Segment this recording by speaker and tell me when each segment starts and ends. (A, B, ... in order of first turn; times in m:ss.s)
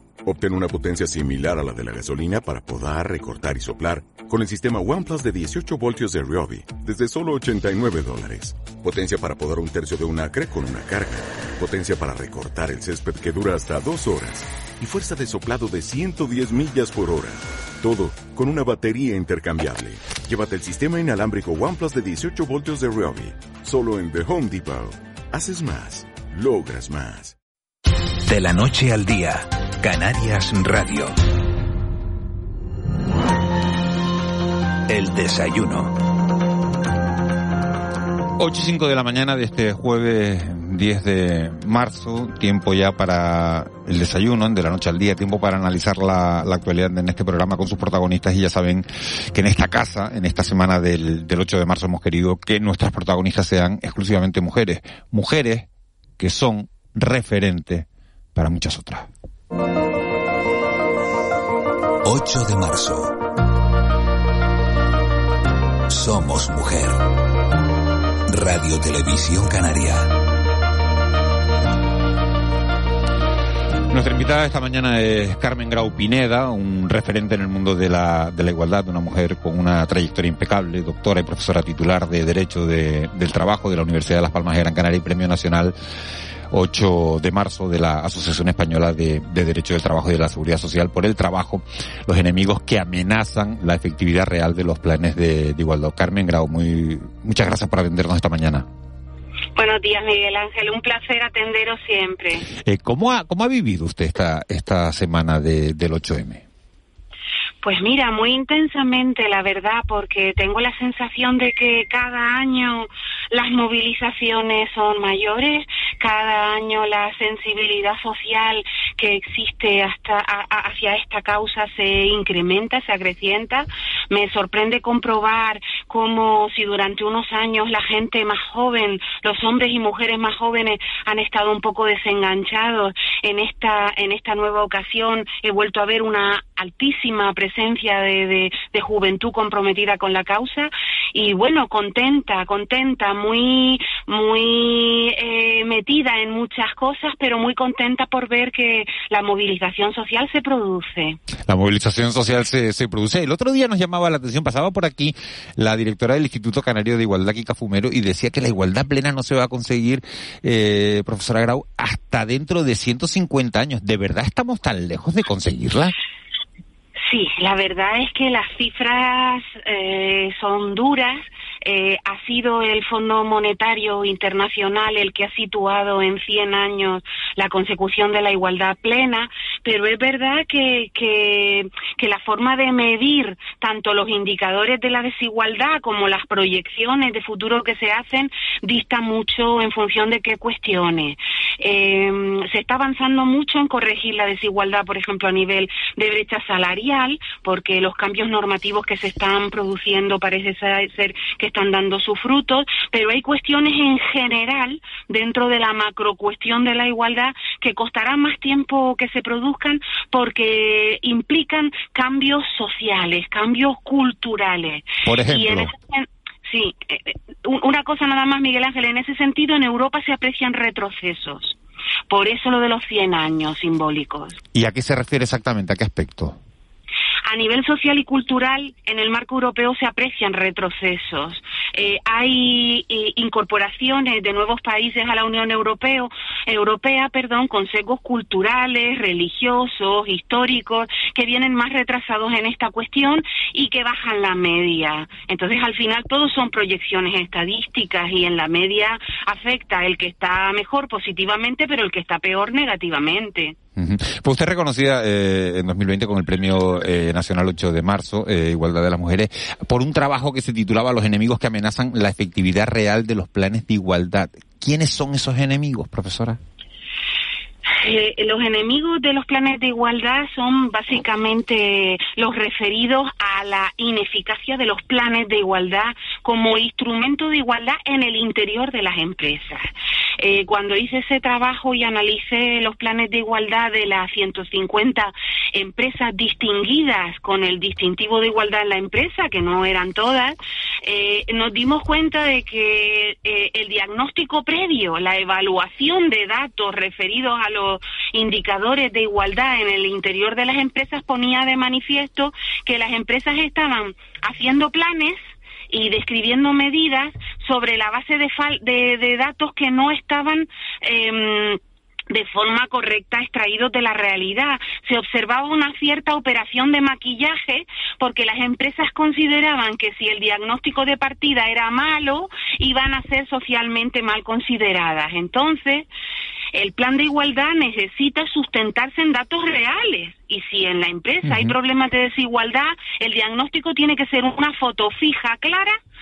0:00.4-0:02.7 A
0:03.4-0:05.5 A
0:06.1-0:08.4 A
0:09.0-0:11.1 A
0:11.8-0:14.3 A
0:15.2-0:17.3 A
0:18.5-0:24.9 A
0:26.7-0:27.3 A
0:28.2-0:31.2 B
0:34.9-0:36.0 B
0:38.4-0:55.7 C
0:56.2-0:59.1 C
1:02.0-1:03.2 B
1:05.9-1:07.1 B
1:08.3-1:10.2 B
1:13.9-1:25.7 C
1:26.5-1:38.6 C
1:39.5-1:42.5 D
1:42.6-1:46.4 C
1:47.6-2:31.2 D
2:31.5-2:45.9 C
2:47.0-3:41.6 D
3:35.0-3:35.7 C
3:42.1-3:44.4 D
3:44.5-3:46.4 C
3:47.2-4:13.6 D
4:13.8-4:26.4 C
4:27.7-5:05.2 D
5:05.7-5:25.9 D
5:26.5-5:35.8 D